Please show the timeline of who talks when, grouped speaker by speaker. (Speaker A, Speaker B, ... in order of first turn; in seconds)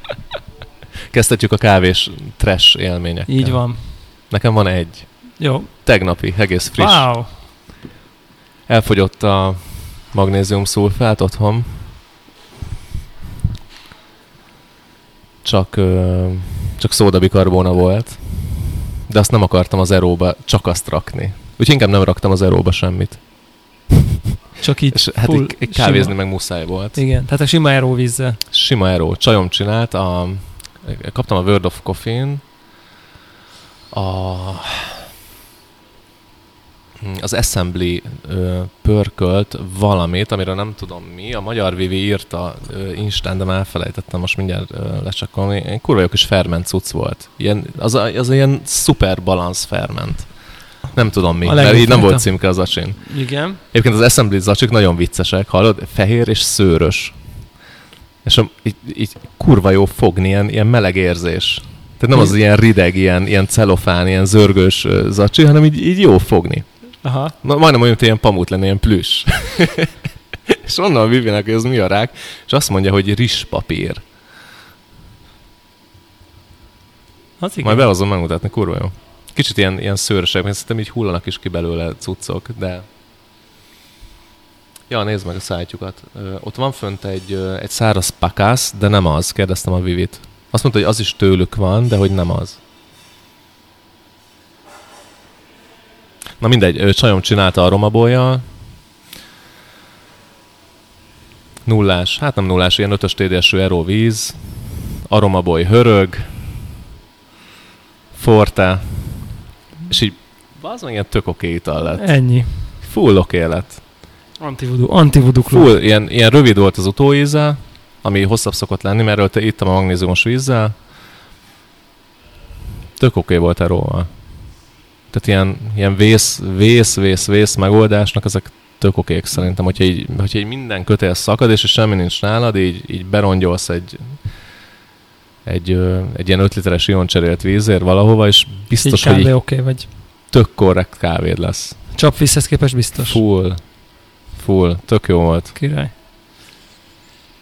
Speaker A: 1.1-7.1, 8.7-11.9, 15.4-23.2, 24.9-27.0, 28.5-32.4, 33.9-35.1, 37.0-50.3, 50.9-53.0, 53.7-57.2, 58.2-66.7, 67.4-69.9, 70.5-74.0, 77.6-82.8, 84.9-92.6, 96.4-98.4, 101.7-104.4, 105.0-106.3, 108.1-109.3, 109.9-112.2, 112.8-113.8, 115.4-120.7, 123.0-124.1, 125.1-134.3, 135.4-139.4, 140.3-141.8, 143.1-143.8, 144.3-145.6
Speaker B: 3.3-4.0, 5.4-5.7, 6.8-7.4, 24.6-26.2, 26.9-28.4, 51.4-52.3, 53.0-53.6, 67.0-67.3, 77.4-77.9, 112.0-112.7, 114.4-115.7, 138.8-139.9, 141.9-143.2, 145.6-145.9